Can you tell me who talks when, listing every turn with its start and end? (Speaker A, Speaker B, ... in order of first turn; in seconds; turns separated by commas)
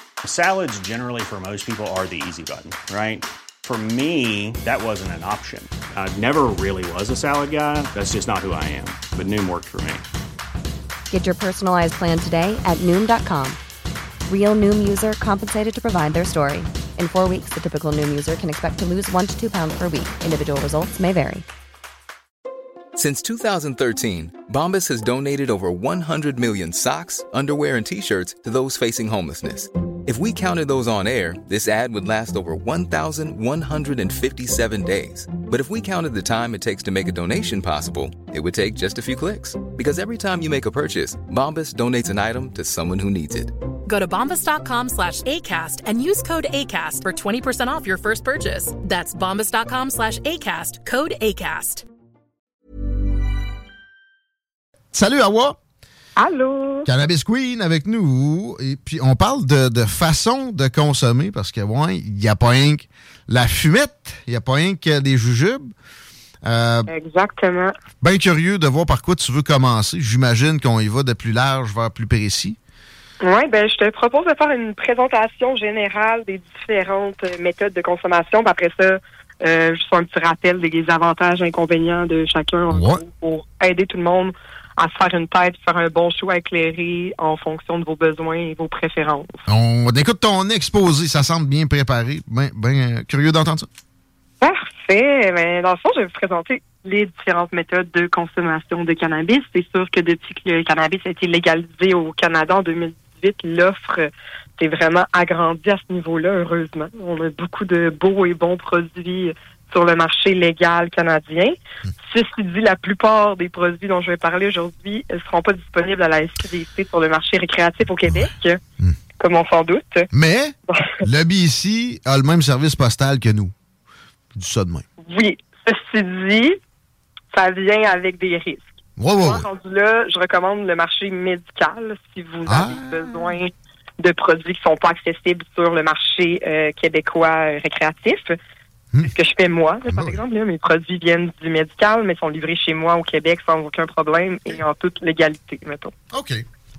Speaker A: 0.2-10.0, Speaker B: 11.1-13.6, Speaker B: 14.3-21.4, Speaker C: 22.9-43.5, Speaker D: 43.9-51.8, Speaker E: 54.9-55.6, Speaker F: 56.2-56.9, Speaker E: 56.9-65.7, Speaker E: 66.4-66.9, Speaker F: 66.9-67.7, Speaker E: 68.0-72.6, Speaker F: 73.2-89.4, Speaker E: 82.7-83.0, Speaker E: 89.5-93.7, Speaker F: 94.4-118.6, Speaker E: 118.1-119.0, Speaker F: 119.2-120.1, Speaker E: 120.1-123.5, Speaker F: 120.7-121.0, Speaker E: 124.3-124.8, Speaker F: 125.0-126.6, Speaker F: 127.3-138.4, Speaker E: 129.0-129.4, Speaker E: 132.4-133.3, Speaker F: 139.0-145.9, Speaker E: 139.9-140.2, Speaker E: 146.1-146.4